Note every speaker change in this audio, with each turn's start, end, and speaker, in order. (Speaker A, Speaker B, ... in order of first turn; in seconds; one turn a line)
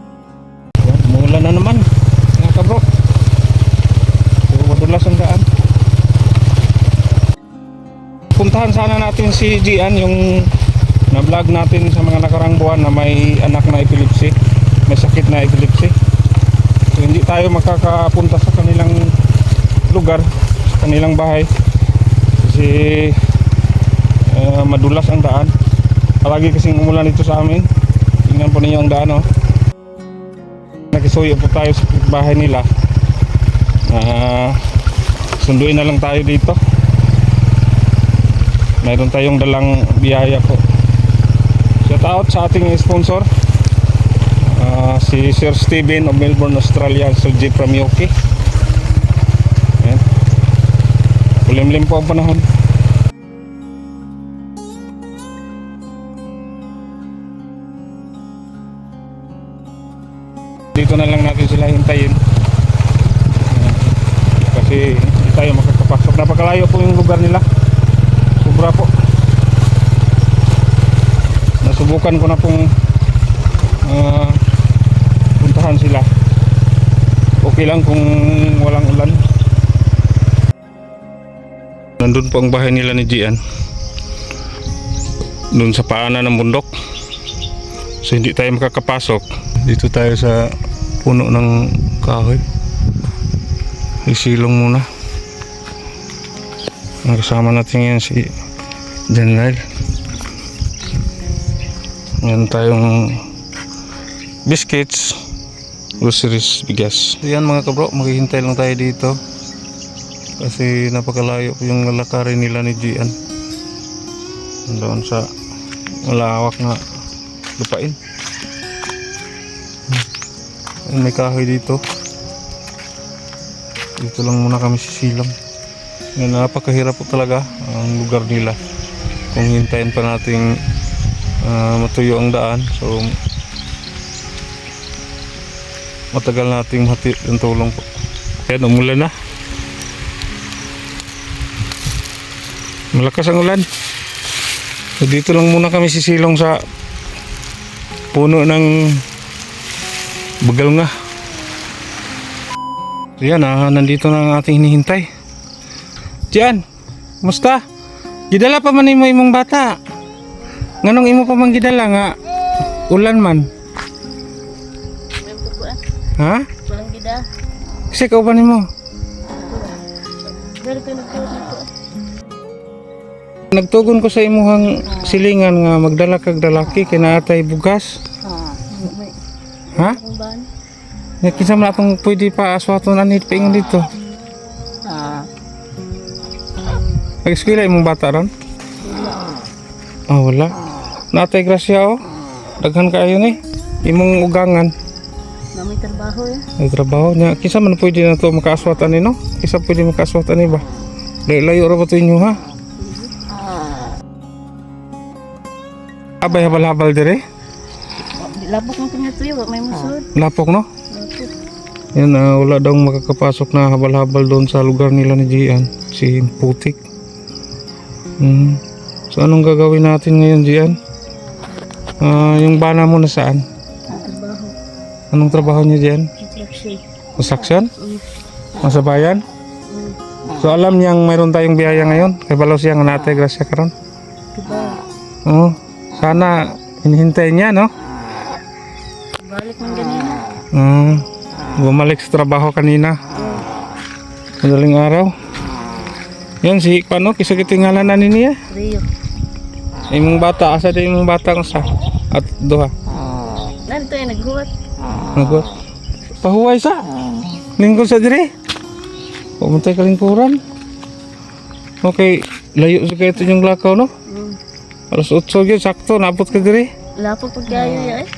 Speaker A: 0.8-2.8
Speaker A: 4.5-5.5
Speaker A: 8.3-10.6
Speaker A: 11.1-14.3
Speaker A: 14.9-15.9
Speaker A: 16.9-19.1
Speaker A: 19.9-21.5
Speaker A: 22.4-23.2
Speaker A: 24.2-25.5
Speaker A: 26.2-27.7
Speaker A: 28.2-29.2
Speaker A: 30.9-32.7
Speaker A: 33.9-34.6
Speaker A: 35.4-36.6
Speaker A: 38.8-40.6
Speaker A: 41.8-43.3
Speaker A: 44.4-48.1
Speaker A: 49.8-50.0
Speaker A: 51.4-52.5
Speaker A: 60.7-62.2
Speaker A: 63.4-67.5
Speaker A: 68.4-69.0
Speaker A: 71.6-72.7
Speaker A: 73.8-74.4
Speaker A: 75.4-76.1
Speaker A: 77.4-79.2
Speaker A: 82.0-83.4
Speaker A: 85.5-86.7
Speaker A: 88.0-92.4
Speaker A: 94.0-94.8
Speaker A: 97.0-98.4
Speaker A: 99.1-99.6
Speaker A: 102.2-103.3
Speaker A: 104.5-105.3
Speaker A: 106.0-109.2
Speaker A: 110.4-113.2
Speaker A: 114.7-115.3
Speaker A: 116.0-116.8
Speaker A: 117.6-118.0
Speaker A: 120.9-121.8
Speaker A: 124.0-125.3
Speaker A: 126.2-128.6
Speaker A: 129.3-130.5
Speaker A: 131.4-133.2
Speaker A: 136.1-137.9
Speaker A: 138.4-139.1
Speaker A: 142.9-143.7
Speaker A: 145.0-146.6
Speaker A: 148.1-149.1
Speaker A: 150.4-150.9
Speaker A: 153.2-155.1
Speaker A: 156.3-156.6
Speaker A: 157.2-157.6
Speaker A: 158.3-159.8
Speaker A: 160.8-162.1
Speaker A: 162.7-163.5
Speaker B: 165.2-165.8
Speaker A: 166.2-166.5
Speaker B: 166.7-167.2
Speaker A: 167.9-168.7
Speaker B: 169.3-169.8
Speaker B: 170.4-171.7
Speaker A: 173.5-178.0
Speaker B: 178.5-179.2
Speaker B: 179.8-180.5
Speaker A: 181.2-183.9
Speaker A: 187.2-188.3
Speaker B: 188.8-189.2
Speaker A: 190.1-190.5
Speaker A: 191.1-192.0
Speaker A: 192.6-194.7
Speaker B: 195.6-196.4
Speaker A: 196.6-200.7
Speaker A: 201.3-202.4
Speaker B: 202.8-203.1
Speaker A: 206.2-207.2
Speaker B: 208.2-210.1
Speaker A: 210.2-210.7
Speaker B: 210.9-211.3
Speaker A: 211.9-216.8
Speaker A: 218.2-220.8
Speaker A: 222.0-223.4
Speaker B: 223.9-224.6
Speaker A: 225.1-226.1
Speaker B: 226.2-226.8
Speaker A: 227.2-227.7
Speaker A: 228.6-229.2
Speaker B: 229.7-230.0
Speaker A: 230.4-233.7
Speaker B: 234.3-234.8
Speaker A: 235.2-237.7
Speaker B: 239.2-240.2
Speaker A: 240.5-241.1
Speaker A: 241.6-243.0
Speaker B: 243.2-243.4
Speaker A: 244.4-245.1
Speaker A: 246.4-248.4
Speaker B: 248.5-248.9
Speaker A: 249.9-252.7
Speaker B: 253.7-254.5
Speaker A: 255.2-255.5
Speaker A: 256.2-256.9
Speaker A: 257.6-258.3
Speaker A: 259.4-260.4
Speaker A: 261.8-263.9
Speaker B: 264.1-264.4
Speaker A: 264.9-266.7
Speaker B: 267.0-268.1